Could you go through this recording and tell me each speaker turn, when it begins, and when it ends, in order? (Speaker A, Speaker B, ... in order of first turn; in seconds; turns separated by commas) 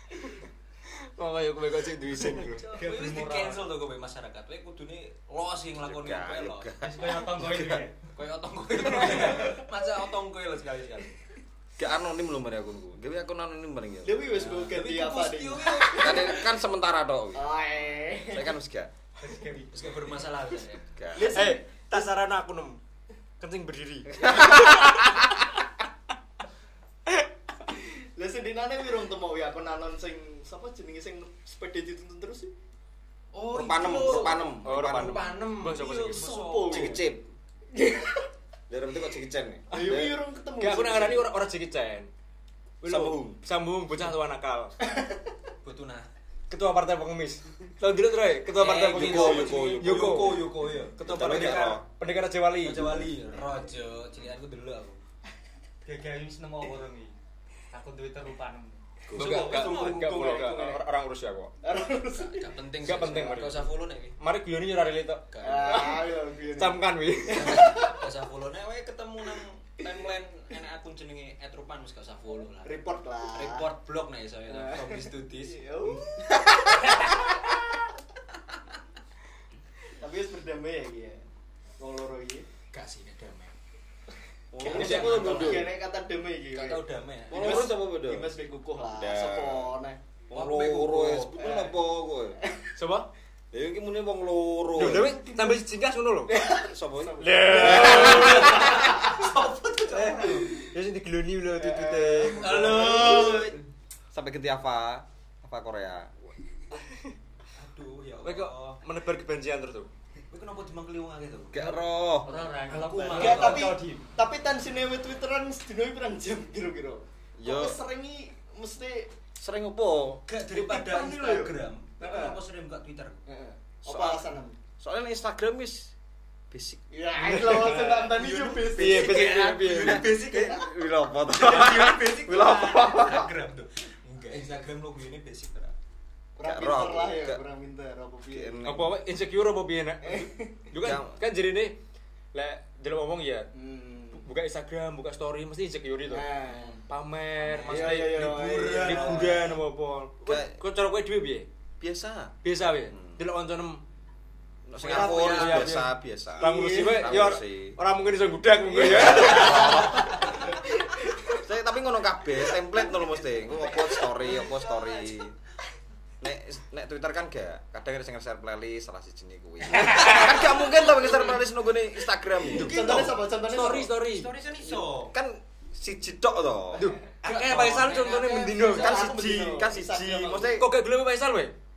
Speaker A: 1.1-2.6, Speaker B: 2.6-3.7, Speaker C: 2.6-6.7, Speaker D: 5.8-7.3, Speaker B: 6.8-8.0, Speaker C: 8.0-11.1, Speaker D: 11.8-14.2, Speaker E: 14.0-16.5, Speaker C: 14.3-16.4, Speaker D: 15.9-17.5, Speaker E: 17.3-18.6, Speaker D: 18.3-18.9, Speaker B: 19.2-19.8, Speaker C: 19.7-20.9, Speaker D: 20.9-21.4, Speaker E: 21.1-22.1, Speaker A: 21.2-22.8, Speaker A: 23.4-25.2, Speaker D: 24.1-25.2, Speaker E: 27.7-32.5, Speaker C: 33.3-37.0, Speaker D: 33.5-35.3, Speaker A: 34.6-36.3, Speaker E: 36.0-37.1, Speaker D: 36.6-37.3, Speaker E: 37.7-38.2, Speaker D: 38.7-40.2, Speaker E: 39.7-41.3, Speaker A: 40.6-42.1, Speaker A: 42.8-44.8, Speaker D: 42.8-43.4, Speaker C: 45.6-46.1, Speaker A: 46.5-52.9, Speaker C: 48.5-51.8, Speaker D: 48.8-50.5, Speaker D: 51.0-51.8, Speaker C: 52.6-55.0, Speaker B: 55.8-57.1, Speaker B: 57.7-58.8, Speaker D: 59.1-59.6, Speaker A: 59.1-61.5, Speaker C: 59.1-60.6, Speaker E: 59.3-60.9, Speaker E: 61.6-63.4, Speaker C: 62.1-64.2, Speaker A: 62.8-67.7, Speaker C: 65.3-66.1, Speaker E: 65.4-68.0, Speaker C: 67.3-75.6, Speaker E: 72.6-73.7, Speaker E: 74.5-76.4, Speaker E: 80.0-81.2, Speaker E: 81.8-82.5, Speaker C: 82.7-83.5, Speaker D: 84.5-85.7, Speaker E: 84.6-90.0, Speaker C: 84.6-85.7, Speaker C: 86.5-87.7, Speaker D: 87.3-88.3, Speaker D: 88.9-89.7, Speaker C: 90.3-91.4, Speaker D: 90.3-92.4, Speaker E: 91.4-91.9, Speaker E: 92.4-92.8, Speaker A: 92.8-93.1, Speaker D: 93.5-95.2, Speaker A: 94.7-96.4, Speaker E: 96.3-99.1, Speaker D: 96.5-98.6, Speaker A: 97.2-99.1, Speaker C: 97.9-100.5, Speaker A: 99.9-102.7, Speaker E: 101.5-103.5, Speaker C: 102.4-103.6, Speaker D: 104.1-106.4, Speaker C: 107.5-108.8, Speaker A: 108.2-109.9, Speaker C: 110.3-111.8, Speaker D: 111.5-112.4, Speaker B: 112.2-114.1, Speaker C: 112.7-113.8, Speaker E: 113.1-119.2, Speaker D: 117.4-117.8, Speaker D: 119.4-120.2, Speaker C: 120.3-123.2, Speaker E: 120.5-122.4, Speaker E: 123.3-124.6, Speaker D: 123.8-125.9, Speaker D: 126.5-126.8, Speaker E: 126.9-130.1, Speaker A: 127.2-128.1, Speaker C: 127.6-130.7, Speaker A: 128.7-130.1, Speaker D: 130.1-133.3, Speaker C: 131.2-135.7, Speaker E: 136.4-138.8, Speaker D: 136.4-137.4, Speaker D: 138.3-138.9, Speaker A: 138.6-141.8, Speaker E: 140.0-140.7, Speaker D: 140.8-141.2, Speaker A: 142.3-143.5, Speaker E: 143.5-144.3, Speaker A: 144.1-146.3, Speaker E: 146.1-146.8, Speaker C: 146.4-146.9, Speaker A: 146.9-151.5, Speaker C: 147.4-149.4, Speaker E: 147.7-149.6, Speaker D: 150.2-150.6, Speaker D: 151.8-152.4, Speaker A: 152.4-153.8, Speaker D: 152.9-153.2, Speaker D: 154.7-157.8, Speaker C: 154.8-155.8, Speaker A: 154.8-160.1, Speaker E: 156.4-157.4, Speaker E: 158.7-161.4, Speaker D: 158.8-160.4, Speaker D: 161.3-165.3, Speaker E: 163.7-165.1, Speaker D: 166.2-172.9, Speaker E: 169.8-171.3, Speaker E: 172.4-173.9, Speaker A: 172.5-174.3, Speaker C: 174.0-175.1, Speaker D: 174.6-176.9, Speaker A: 176.7-179.0, Speaker C: 177.2-179.1, Speaker E: 178.7-180.6, Speaker D: 178.8-180.7, Speaker A: 180.6-181.5